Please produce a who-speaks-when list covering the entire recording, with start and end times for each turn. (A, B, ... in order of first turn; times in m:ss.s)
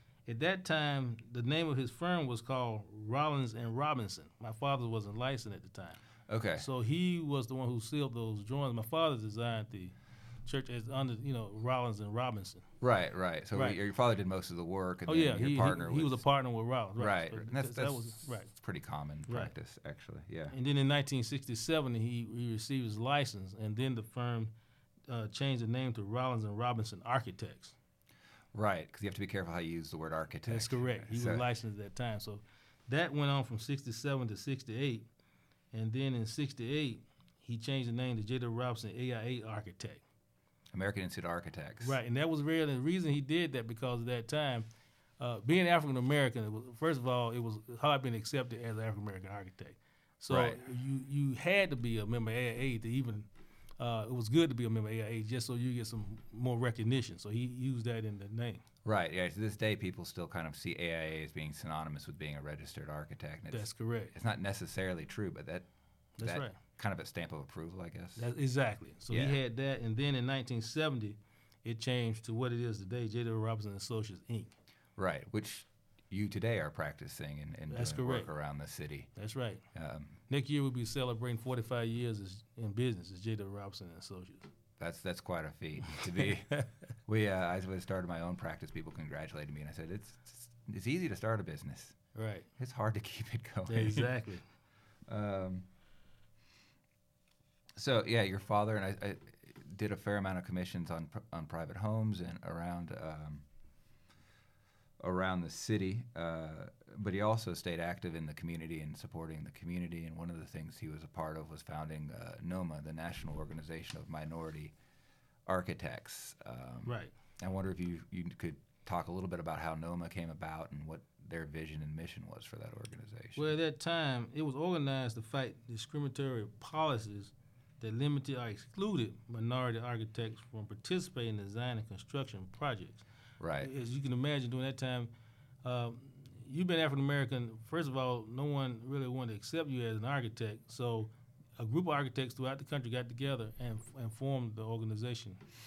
0:00.2-0:06.0 A
0:06.3-0:06.7 B
0:06.6-0:12.6 A
0:12.8-0:16.2 B
0:15.1-0:18.5 A
0:17.0-0:20.6 B
0:19.3-0:19.5 A
0:20.5-0:24.5 A
0:25.1-0:27.8 A
0:28.5-0:31.4 B
0:30.5-0:35.1 A
0:35.7-0:40.0 A
0:40.7-0:42.0 B
0:41.8-0:44.7 A
0:45.2-0:53.3 A
0:50.3-0:50.6 B
0:53.8-0:58.6 A
0:58.8-1:05.6 B
1:03.5-1:04.1 A
1:06.2-1:06.6 A
1:06.2-1:08.3 B
1:08.2-1:14.6 A
1:09.1-1:09.4 B
1:15.0-1:19.1 B
1:17.7-1:18.3 A
1:19.2-1:19.6 A
1:19.7-1:20.2 B
1:20.3-1:24.4 A
1:24.8-1:32.0 B
1:32.2-1:32.5 A
1:32.6-1:34.1 B
1:33.7-1:34.4 A
1:35.1-1:35.6 B
1:37.8-1:43.4 B
1:45.0-1:54.7 B
1:55.5-2:03.5 B
1:56.8-1:57.1 A
2:03.4-2:13.0 A
2:13.4-2:13.7 B
2:13.6-2:15.1 A
2:15.6-2:25.4 A